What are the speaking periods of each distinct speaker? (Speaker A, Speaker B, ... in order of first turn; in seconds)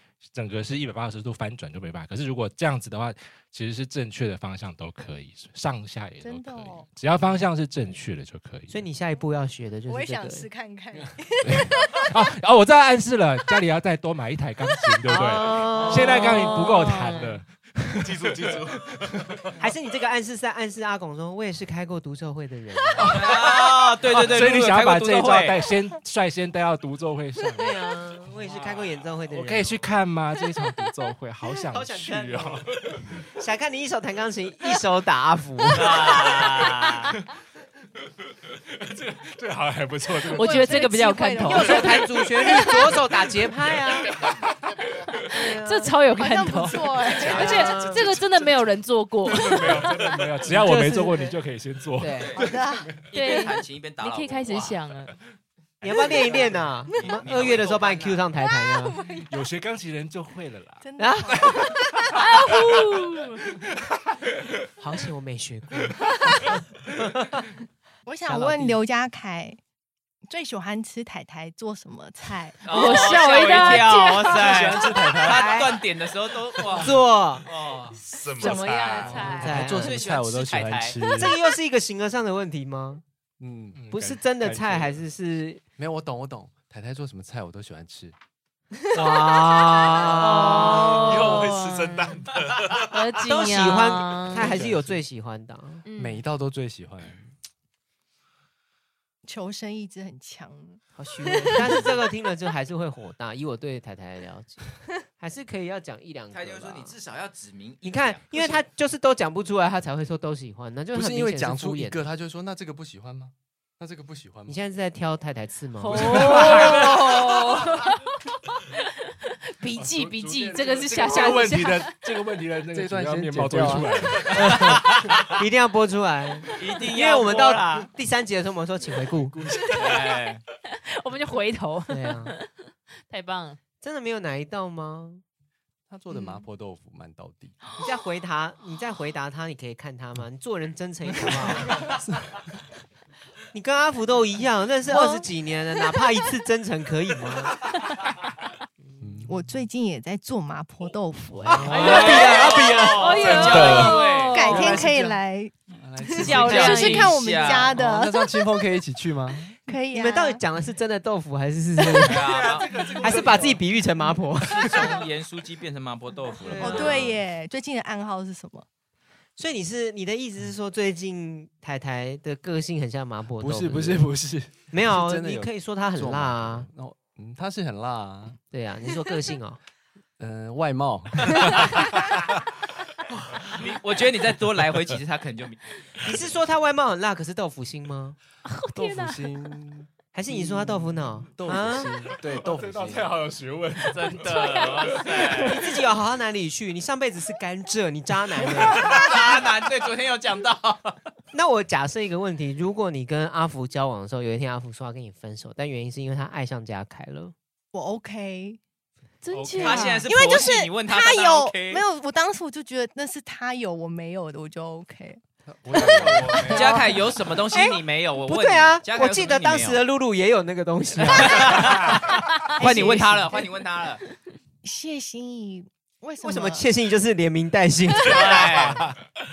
Speaker A: 0.3-8.8, 11.5-18.6, 23.0-27.7, 29.3-33.0, 39.0-40.9, 49.2-52.8, 59.3-60.9, 83.8-84.2, 119.8-124.6, 192.4-194.1, 209.3-210.0
Speaker B: 6.2-6.9, 9.9-12.1, 40.4-42.6, 46.1-48.0, 52.4-52.9, 58.4-59.4, 60.8-61.9, 68.1-69.6, 70.3-72.9, 99.3-100.8, 101.5-101.9, 144.9-145.2, 149.2-152.2, 153.4-158.5, 159.7-160.4, 166.5-168.6, 207.7-208.6, 210.1-215.2, 215.7-217.0, 222.6-223.5, 224.6-226.7
Speaker C: 8.7-10.5, 15.1-16.5, 19.6-23.2, 27.6-29.9, 31.4-32.6, 33.4-36.2, 41.4-44.1, 45.3-46.0, 47.2-48.2, 50.5-51.4, 52.0-52.4, 55.8-59.0, 61.0-61.8, 64.8-67.4, 68.3-68.8, 75.2-75.8, 76.8-77.5, 79.4-80.1, 81.0-83.0, 83.9-85.6, 88.9-91.3, 93.3-95.8, 101.0-107.0, 107.8-112.1, 114.5-117.1, 124.3-124.8, 125.3-129.4, 131.9-132.3, 133.8-135.2, 137.8-141.9, 143.5-147.7, 151.5-153.5, 159.9-162.3, 163.0-164.8, 166.4-167.2, 169.4-174.2, 174.7-176.7, 178.5-179.6, 186.0-188.2, 190.1-192.0, 195.3-198.9, 201.3-207.3, 217.5-221.9, 222.6-223.4, 226.2-228.7
Speaker D: 15.8-16.1, 23.0-25.6, 28.5-28.9, 35.7-37.1, 53.1-54.8, 55.9-58.2, 72.6-77.9, 79.5-81.0, 106.3-108.6, 124.6-125.1, 126.6-127.9, 129.7-130.4, 151.7-154.6, 156.5-157.7, 162.0-163.2, 164.4-167.1, 183.6-186.0, 193.9-195.6, 198.6-201.0, 209.6-211.8, 216.3-219.8, 221.0-224.0, 228.0-228.8
Speaker E: 15.9-17.4, 40.4-42.8, 45.6-49.9, 53.1-55.1, 62.1-63.4, 72.7-74.4, 78.3-79.5, 89.8-92.2, 92.8-94.5, 95.9-96.3, 115.8-118.0, 119.6-121.9, 129.8-130.0, 130.9-133.6, 151.6-154.8, 156.1-157.1, 188.5-189.3, 194.2-195.0, 209.2-210.1
Speaker F: 18.0-19.4, 49.8-50.4, 78.0-79.4, 90.8-93.2, 153.3-154.0, 162.2-163.6
Speaker G: 74.3-75.6, 76.6-77.0, 79.1-81.4, 83.4-83.8, 84.4-84.8, 85.8-88.1, 94.4-95.0, 96.0-97.2, 110.9-114.6, 116.0-116.4, 122.7-124.3, 135.9-137.6, 149.0-149.4, 154.5-155.2, 155.8-159.6, 173.4-178.4, 180.2-182.1, 188.8-193.2, 215.5-216.8